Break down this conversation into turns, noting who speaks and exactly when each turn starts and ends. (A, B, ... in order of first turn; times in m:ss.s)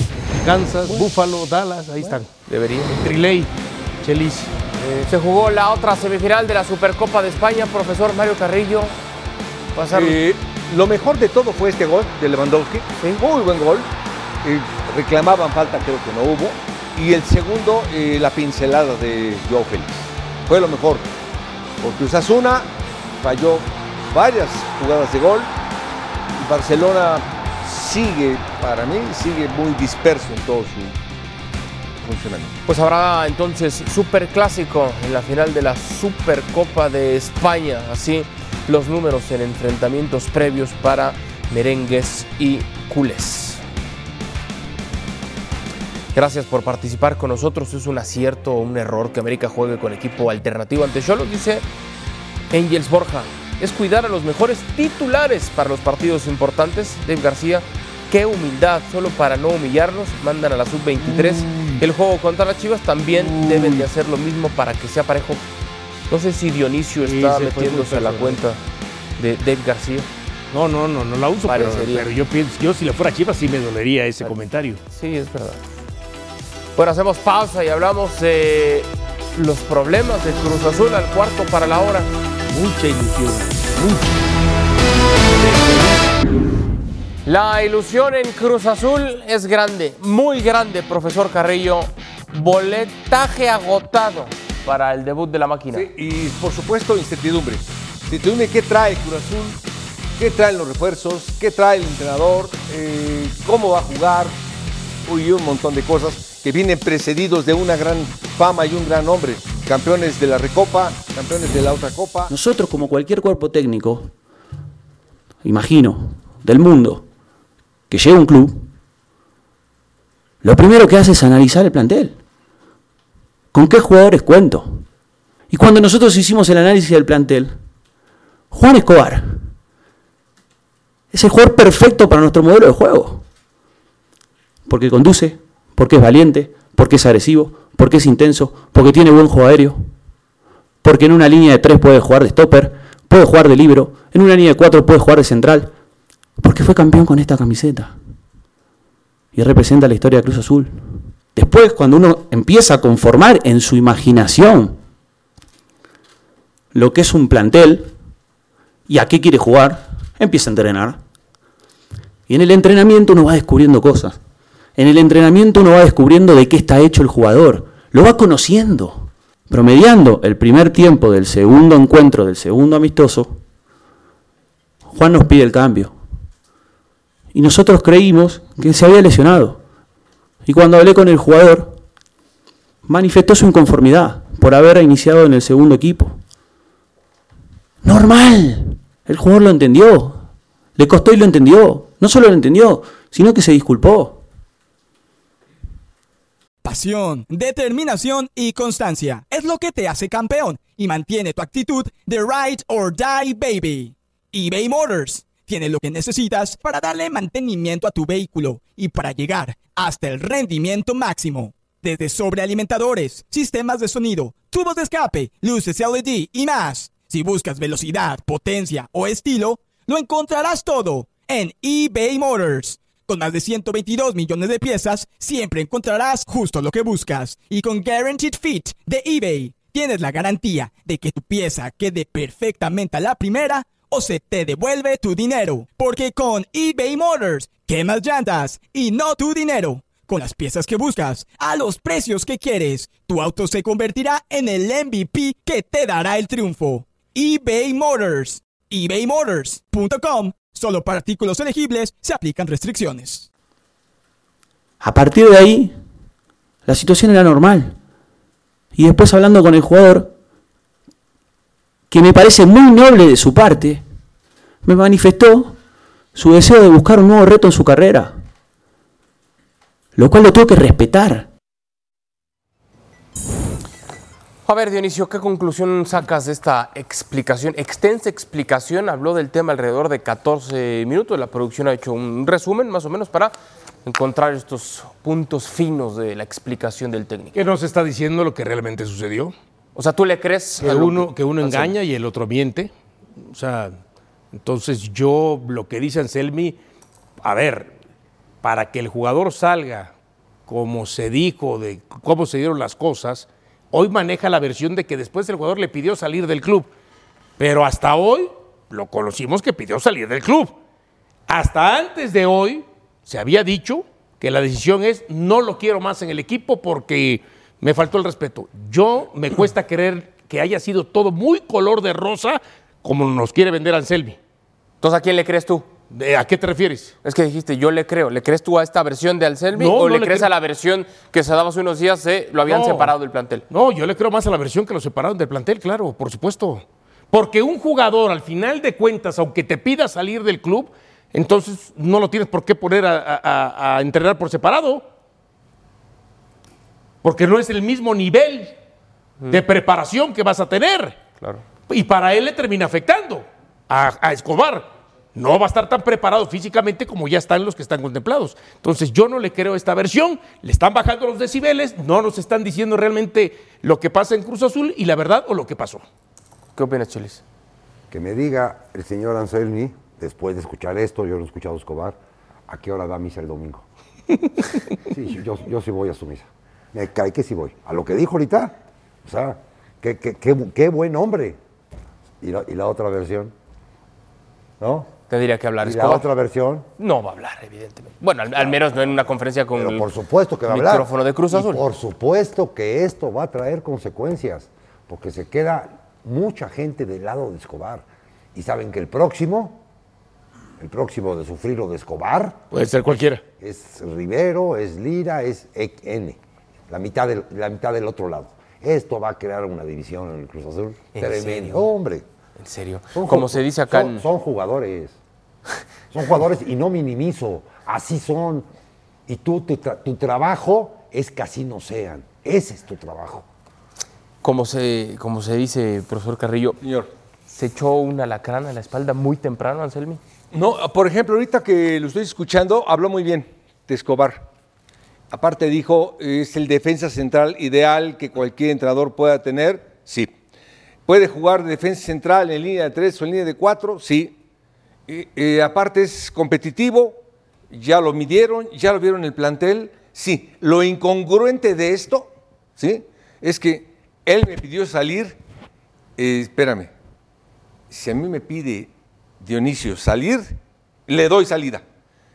0:00.4-0:02.3 A
0:02.5-0:03.0 B
0:02.9-0:03.5 A
0:04.0-0:04.6 A
0:05.1-0:08.9 B
0:09.8-0:10.2 B
0:09.9-0:13.9 C
0:14.4-0:21.1 C
0:21.8-0:25.5 C
0:26.4-0:31.0 C
0:32.0-0:32.6 C
0:32.7-0:43.6 B
0:46.1-0:51.6 B
0:52.5-1:05.4 B
1:03.4-1:03.8 A
1:06.1-1:08.6 B
1:07.1-1:08.4 A
1:09.2-1:10.1 B
1:10.5-1:14.8 A
1:11.5-1:12.1 B
1:14.9-1:15.6 B
1:16.8-1:22.1 B
1:22.5-1:24.2 A
1:25.4-1:26.2 A
1:27.3-1:35.9 B
1:35.7-1:39.6 C
1:40.2-1:44.3 C
1:45.0-1:52.3 C
1:52.3-1:54.1 D
1:55.4-1:57.1 D
1:57.9-1:58.7 D
2:00.4-2:02.2 D
2:03.5-2:04.8 D
2:05.5-2:07.5 D
2:08.5-2:09.4 D
2:11.1-2:13.2 D
2:14.7-2:19.9 D
2:20.8-2:25.7 D
2:26.4-2:28.0 D
2:29.3-2:30.8 D
2:31.4-2:34.8 D
2:36.7-2:37.9 D
2:38.9-2:41.0 D
2:42.3-2:44.2 D
2:44.8-2:53.4 D
2:54.9-2:56.0 D
2:57.3-2:59.6 D
3:00.4-3:01.8 D
3:02.8-3:06.2 D
3:07.8-3:10.2 D
3:10.8-3:14.2 D
3:16.6-4:13.3 E
4:14.8-4:15.8 D
4:16.7-4:17.8 D
4:18.8-4:20.1 D
4:21.9-4:23.8 D
4:24.6-4:25.6 D
4:26.1-4:28.1 D
4:30.0-4:31.3 D
4:34.4-4:43.3 B
4:43.8-4:47.4 B
4:47.3-4:49.3 A
4:49.7-4:51.7 B
4:50.6-4:52.7 A
4:53.3-4:53.8 A
4:54.3-4:56.6 A
4:57.2-4:57.7 A
4:58.4-4:59.9 A
5:00.5-5:06.7 A
5:07.4-5:10.5 A
5:11.3-5:24.2 A
5:24.8-5:25.7 B
5:25.9-5:27.0 A
5:27.0-5:33.4 B
5:29.5-5:30.3 A
5:32.4-5:32.9 A
5:33.5-5:44.8 A
5:47.0-5:48.5 A
5:49.3-5:51.0 A
5:51.7-6:05.8 A
6:06.6-6:07.2 B
6:07.9-6:13.6 F
6:14.9-6:21.4 F
6:22.2-6:23.3 F
6:24.6-6:24.9 F
6:25.1-6:26.1 B
6:25.6-6:26.7 F
6:26.8-6:29.9 B
6:28.3-6:29.0 F
6:29.5-6:39.6 F
6:30.5-6:31.6 B
6:40.6-6:42.4 F
6:42.5-6:43.2 A
6:43.4-6:52.0 F
6:51.0-6:51.7 B
6:52.4-6:54.0 B
6:52.9-6:55.0 F
6:55.9-6:58.4 F
6:59.1-7:03.3 F
7:04.2-7:06.6 B
7:06.6-7:06.9 C
7:07.3-7:10.0 B
7:10.3-7:14.3 C
7:15.1-7:20.1 C
7:20.9-7:24.2 C
7:24.9-7:35.2 C
7:36.0-7:36.7 C
7:37.7-7:41.6 C